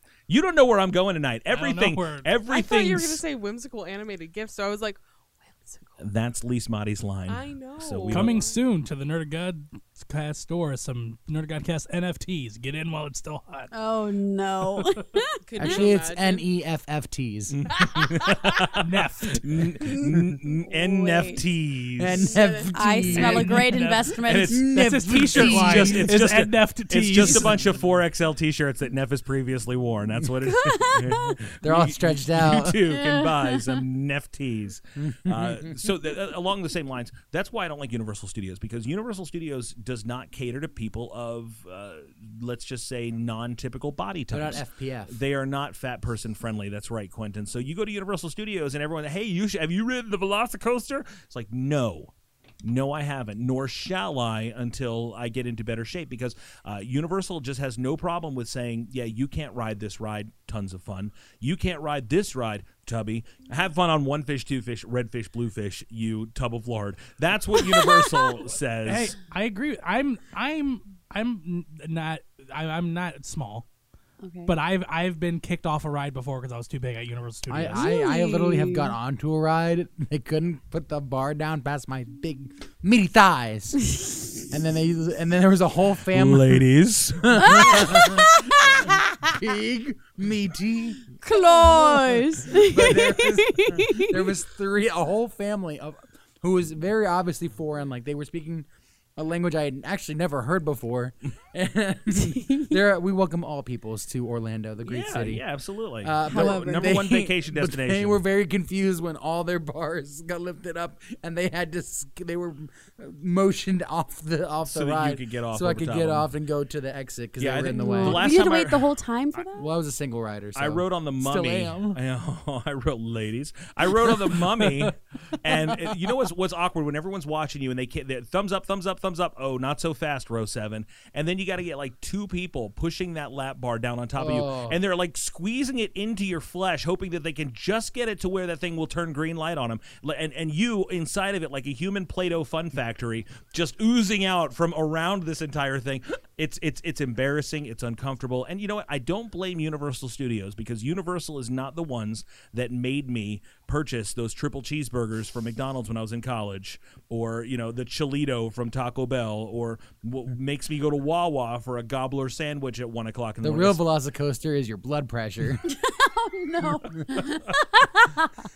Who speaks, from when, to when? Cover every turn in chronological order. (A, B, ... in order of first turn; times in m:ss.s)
0:00.3-0:03.2 A
0:01.5-0:02.3 B
0:02.4-0:06.0 C
0:06.0-0:08.4 A
0:07.3-0:08.6 C
0:08.1-0:13.7 B
0:13.7-0:15.4 D
0:15.4-0:16.4 C
0:15.6-0:17.6 E
0:17.5-0:22.3 A
0:18.8-0:19.4 B
0:19.9-0:20.3 E
0:20.7-0:21.4 D
0:22.0-0:23.8 E
0:22.2-0:22.8 C
0:22.7-0:24.6 D
0:23.1-0:24.1 B
0:24.1-0:52.1 A
0:24.4-0:26.1 E
0:24.7-0:27.6 B
0:30.5-0:31.4 D
0:31.6-0:32.8 E
0:32.9-0:33.8 D
0:35.0-0:35.8 E
0:44.3-0:45.1 E
0:52.6-1:09.2 A
1:08.8-1:13.6 B
1:14.2-1:14.5 D
1:14.5-1:17.8 B
1:17.5-1:23.9 E
1:17.8-1:18.9 D
1:24.5-1:26.7 E
1:26.1-1:27.9 A
1:27.2-1:45.4 E
1:27.4-1:28.5 D
1:31.2-1:34.2 D
1:42.1-1:42.7 D
1:44.8-1:48.2 A
1:46.0-1:58.3 E
1:46.3-1:47.0 D
1:54.6-1:56.3 A
1:57.4-1:58.9 A
1:57.7-1:59.7 D
1:59.6-2:02.0 E
2:00.5-2:43.8 A
2:14.2-2:14.8 E
2:43.4-2:45.7 E
2:45.7-2:48.3 D